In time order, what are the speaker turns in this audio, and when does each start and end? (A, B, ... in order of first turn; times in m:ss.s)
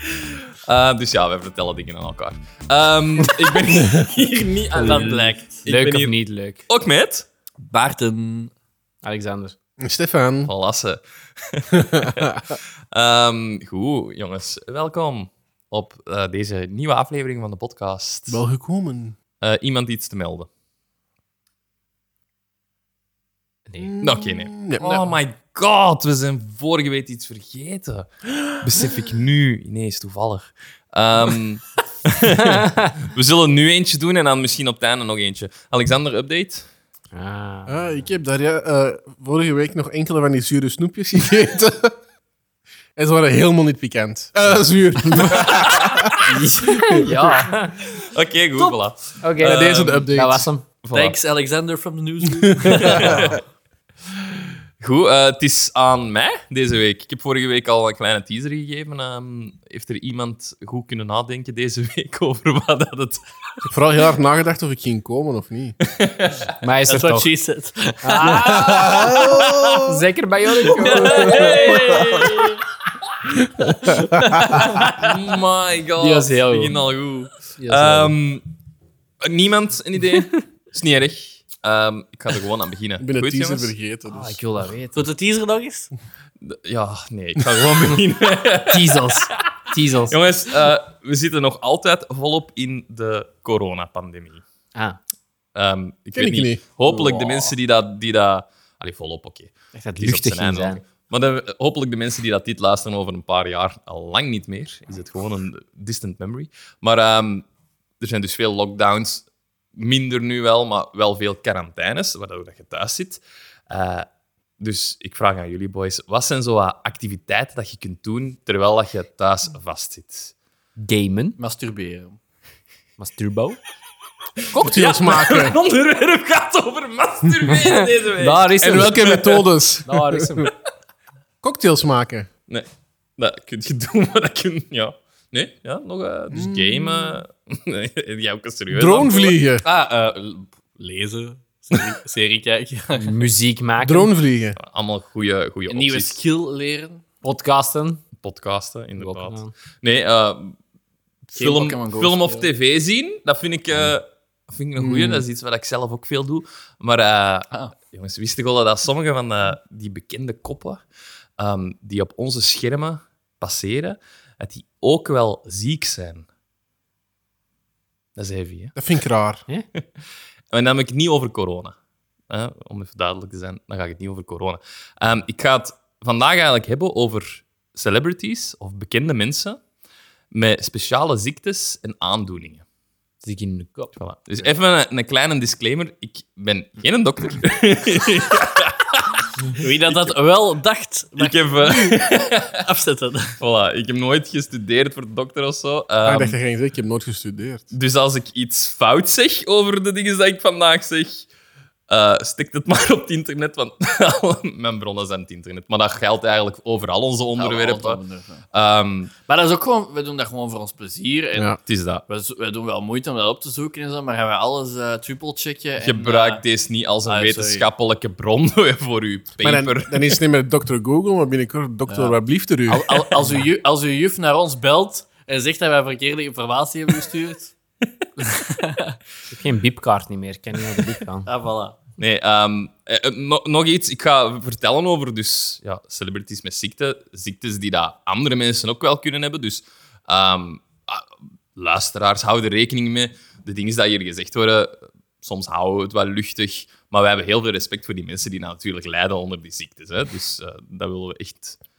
0:00.6-0:06.2 A
0:04.8-0:05.6 B
0:04.8-0:06.6 C
0:06.7-0:07.3 A
0:07.6-0:08.5 B
0:09.0-0:09.6 C
0:09.8-0:10.5 D
0:10.5-0:18.4 A
0:11.7-0:12.5 D
0:18.3-0:19.2 D
0:19.4-0:20.5 A
0:23.7-0:24.0 C
0:23.8-0:25.1 D
0:24.0-0:36.7 A
0:32.6-0:32.9 C
0:37.1-0:37.8 C
0:37.7-0:42.0 D
0:43.0-0:47.4 D
0:45.3-0:46.2 A
0:46.2-0:47.9 C
0:47.9-0:50.1 A
0:49.2-0:50.6 C
0:49.4-0:50.5 D
0:50.8-0:51.2 A
0:50.9-0:53.4 B
0:52.4-0:53.4 D
0:52.8-0:53.4 A
0:54.8-1:03.7 A
1:03.7-1:05.8 D
1:05.9-1:06.5 A
1:06.6-1:07.3 C
1:06.9-1:09.8 B
1:08.0-1:09.2 C
1:08.2-1:09.8 D
1:09.8-1:11.9 C
1:10.6-1:12.6 B
1:10.9-1:12.3 A
1:13.6-1:14.7 D
1:13.8-1:15.2 B
1:15.0-1:18.4 A
1:16.0-1:16.8 C
1:17.6-1:18.1 C
1:19.2-1:23.7 A
1:23.0-1:24.4 D
1:24.1-1:25.1 C
1:24.9-1:25.9 B
1:26.4-1:29.2 A
1:28.7-1:30.2 C
1:30.1-1:34.4 A
1:35.5-1:47.4 A
1:36.2-1:36.6 D
1:39.7-1:40.8 C
1:48.0-1:54.1 A
1:54.6-2:00.3 A
2:00.8-2:01.4 C
2:01.4-2:02.2 B
2:03.0-2:03.6 C
2:04.5-2:09.5 A
2:04.6-2:05.6 D
2:07.6-2:09.1 C
2:08.6-2:10.4 D
2:09.8-2:10.5 C
2:11.4-2:12.3 D
2:12.5-2:19.4 A
2:16.3-2:17.2 D
2:18.7-2:19.6 D
2:19.6-2:23.3 B
2:23.0-2:24.1 C
2:23.8-2:24.6 D
2:24.6-2:26.2 A
2:25.7-2:27.0 B
2:27.2-2:28.0 C
2:28.2-2:30.6 A
2:29.0-2:29.5 C
2:31.3-2:40.8 A
2:31.4-2:32.5 B
2:34.8-2:35.2 D
2:41.4-2:46.3 A
2:48.2-2:48.8 A
2:48.8-2:49.4 D
2:50.5-2:51.8 A
2:52.3-2:59.6 A
3:00.3-3:02.6 A
3:03.2-3:03.9 C
3:04.0-3:09.6 A
3:09.6-3:12.0 B
3:11.2-3:12.6 A
3:12.6-3:13.4 B
3:13.4-3:16.4 A
3:16.0-3:17.7 D
3:17.7-3:21.3 A
3:21.9-3:28.0 A
3:27.4-3:28.4 B
3:28.5-3:29.1 A
3:29.3-3:36.4 B
3:31.7-3:32.0 A
3:35.8-3:40.2 A
3:37.0-3:37.7 B
3:39.4-3:43.0 D
3:41.9-3:42.2 B
3:42.7-3:47.5 B
3:48.2-3:49.0 B
3:49.3-3:51.3 C
3:51.3-3:51.8 B
3:52.0-4:11.6 A